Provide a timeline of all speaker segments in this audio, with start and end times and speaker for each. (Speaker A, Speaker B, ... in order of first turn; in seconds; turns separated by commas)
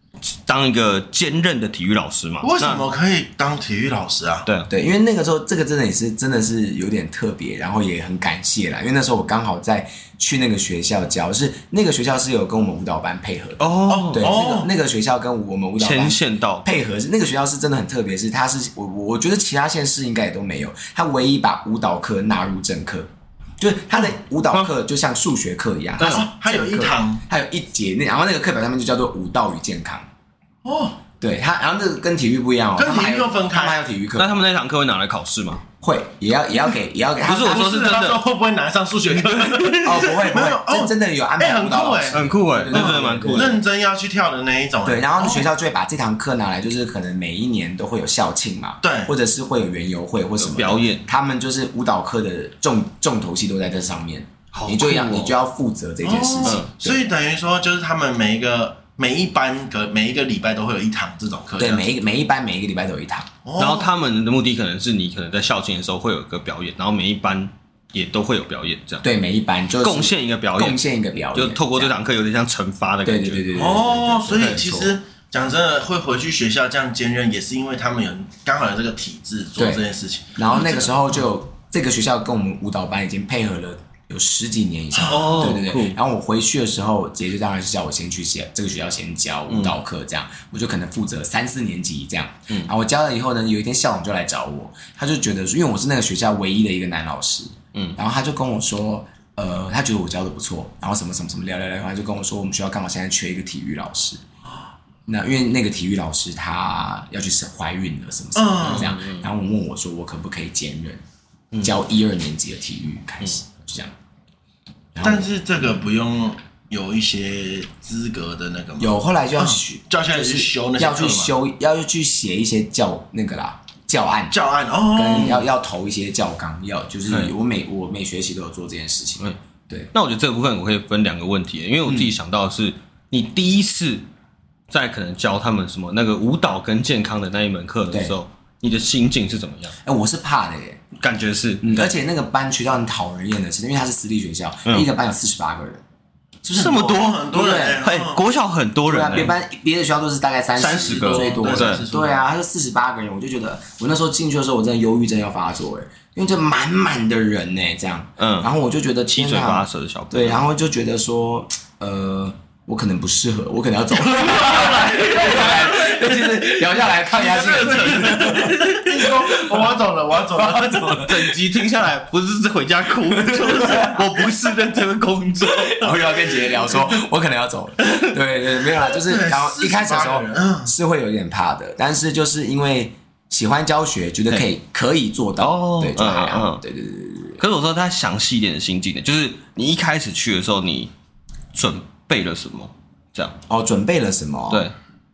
Speaker A: 0.2-2.8, Speaker B: 2.4-4.5, Speaker C: 4.7-30.1, Speaker A: 13.6-14.4, Speaker B: 13.9-14.7, Speaker A: 15.8-16.7, Speaker A: 26.0-26.2, Speaker B: 26.0-27.2, Speaker B: 30.6-31.0, Speaker C: 31.2-34.3, Speaker B: 32.8-33.8, Speaker A: 34.2-35.6, Speaker C: 35.8-37.8, Speaker A: 37.2-38.2, Speaker B: 37.5-45.5, Speaker A: 39.1-40.1, Speaker C: 39.8-43.6, Speaker A: 42.1-43.6, Speaker C: 44.8-57.0, Speaker B: 48.8-49.1, Speaker A: 50.4-51.0, Speaker A: 54.5-55.4, Speaker B: 56.0-62.0, Speaker A: 56.5-56.7, Speaker C: 61.6-63.3, Speaker B: 63.5-63.9, Speaker A: 63.6-69.0, Speaker C: 69.0-72.0, Speaker A: 69.8-70.8, Speaker A: 71.3-73.5, Speaker C: 73.0-74.9, Speaker B: 73.5-81.0, Speaker C: 79.6-79.8, Speaker C: 80.4-104.2, Speaker B: 85.0-85.4, Speaker A: 85.1-86.0, Speaker A: 89.5-89.8, Speaker C: 105.1-111.0, Speaker B: 108.3-108.9, Speaker A: 108.7-109.3, Speaker C: 111.6-113.9, Speaker C: 115.0-115.3, Speaker B: 115.0-121.3, Speaker C: 118.8-124.4, Speaker B: 124.3-125.5, Speaker C: 124.9-129.9, Speaker A: 129.9-134.1, Speaker C: 131.9-132.1, Speaker A: 134.7-139.8, Speaker C: 137.9-138.2, Speaker C: 139.8-140.8, Speaker A: 141.0-141.9, Speaker C: 141.6-145.8, Speaker C: 146.4-147.9, Speaker A: 146.5-147.3, Speaker B: 146.5-148.2, Speaker A: 147.8-149.3, Speaker C: 148.9-171.4, Speaker A: 150.6-151.8, Speaker B: 150.8-152.2, Speaker A: 158.2-158.5, Speaker A: 159.1-160.4, Speaker A: 164.0-169.5, Speaker B: 164.2-164.8, Speaker B: 167.6-171.1, Speaker A: 171.0-176.7, Speaker C: 173.1-174.5, Speaker C: 175.7-187.4, Speaker A: 177.8-178.2, Speaker B: 178.9-180.7, Speaker A: 185.4-186.6, Speaker A: 187.4-190.9, Speaker A: 191.5-193.3, Speaker C: 193.5-194.7